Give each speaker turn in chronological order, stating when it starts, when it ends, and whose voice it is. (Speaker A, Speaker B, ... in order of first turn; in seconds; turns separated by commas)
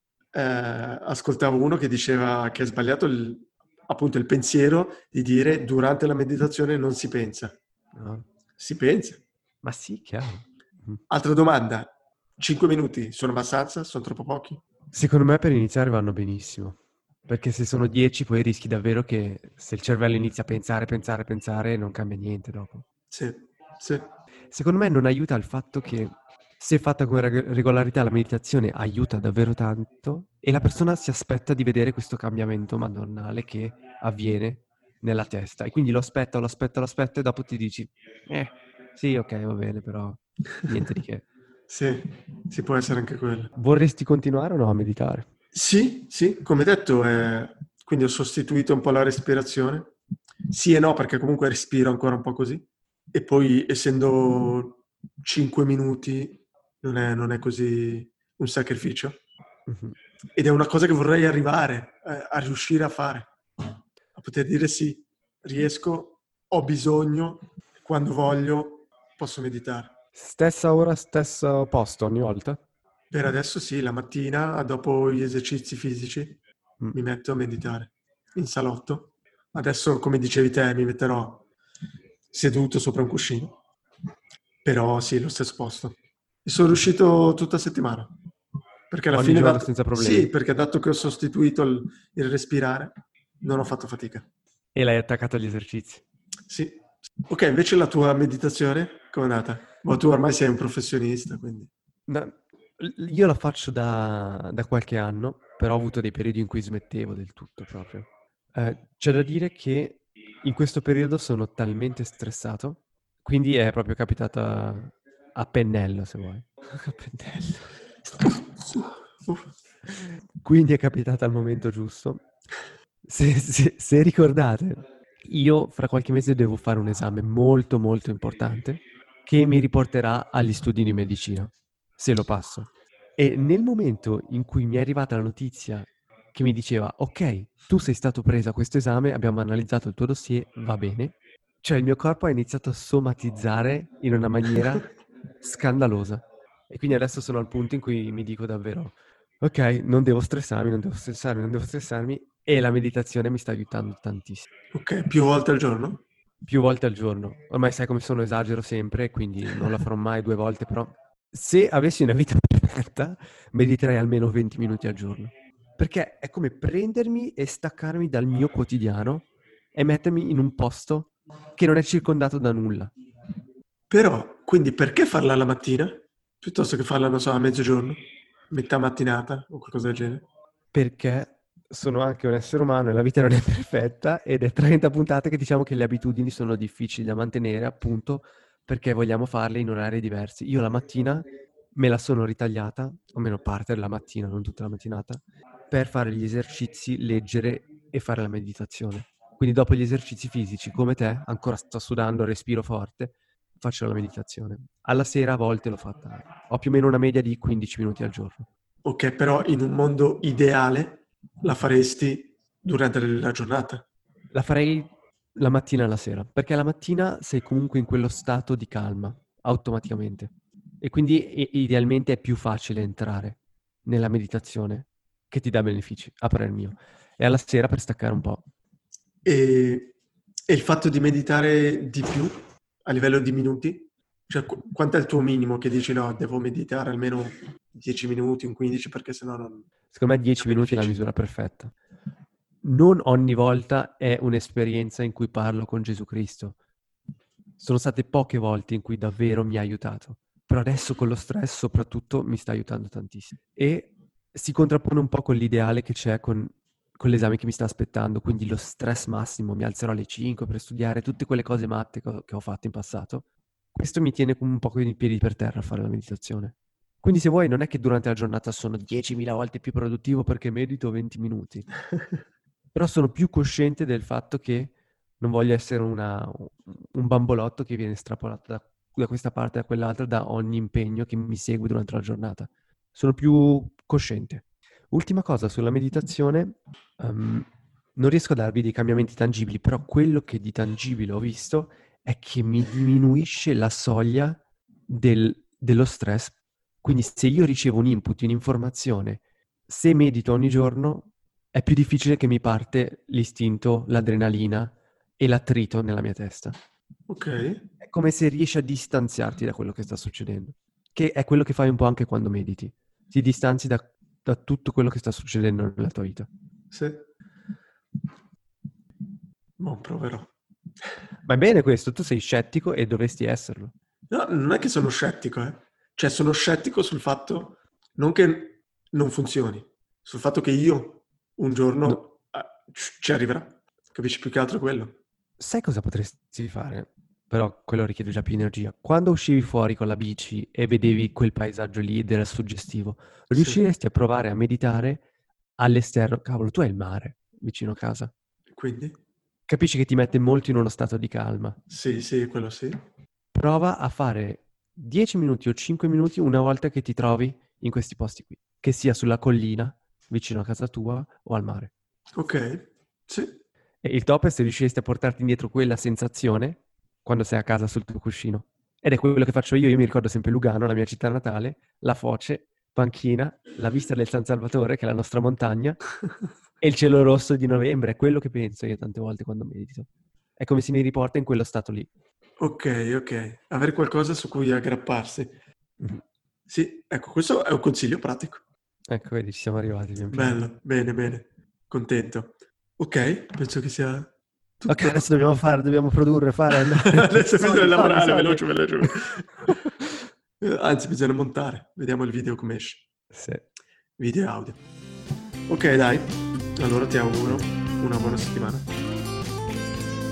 Speaker A: 0.3-7.6, Speaker B: 8.0-8.2, Speaker A: 8.6-9.2, Speaker B: 9.6-11.0, Speaker A: 11.1-14.6, Speaker B: 14.9-22.8, Speaker A: 23.1-24.1, Speaker B: 24.5-41.3, Speaker A: 41.7-43.5, Speaker B: 43.6-45.3, Speaker A: 45.5-50.0, Speaker A: 50.5-59.2, Speaker B: 59.7-60.0, Speaker A: 60.4-63.3, Speaker A: 64.2-70.0, Speaker B: 70.2-72.6, Speaker A: 73.1-76.4, Speaker A: 76.9-81.5, Speaker A: 82.3-83.5, Speaker A: 84.6-88.2, Speaker A: 88.9-94.3, Speaker B: 89.1-90.3, Speaker B: 94.8-96.0, Speaker A: 96.5-101.7, Speaker B: 102.1-117.8, Speaker A: 118.2-119.5, Speaker B: 119.9-122.2, Speaker B: 123.0-144.9, Speaker B: 145.4-154.5, Speaker A: 154.7-156.0, Speaker B: 156.4-172.9, Speaker A: 173.9-180.2, Speaker B: 180.7-208.5, Speaker A: 208.8-213.9, Speaker B: 214.3-228.4, Speaker A: 229.2-230.0, Speaker A: 230.5-239.7, Speaker B: 239.9-241.7, Speaker A: 240.4-241.0, Speaker B: 242.6-246.6, Speaker B: 247.6-271.7, Speaker B: 272.7-306.6, Speaker A: 307.1-307.6, Speaker B: 307.8-316.3, Speaker A: 316.7-317.1, Speaker A: 319.6-320.3, Speaker B: 321.2-323.7, Speaker A: 324.1-335.0, Speaker B: 335.4-345.0, Speaker A: 343.3-343.6, Speaker B: 345.6-348.1, Speaker A: 348.5-349.0, Speaker B: 349.5-351.6, Speaker A: 351.7-352.8, Speaker B: 353.3-361.7, Speaker A: 362.2-363.4, Speaker B: 363.8-375.8, Speaker B: 376.6-381.9, Speaker A: 382.4-385.4, Speaker A: 386.5-388.4, Speaker B: 388.9-390.4, Speaker A: 390.1-395.1, Speaker B: 394.7-398.9, Speaker A: 396.9-399.5, Speaker A: 400.4-402.9, Speaker B: 403.1-403.4, Speaker A: 404.0-404.6, Speaker A: 405.5-408.7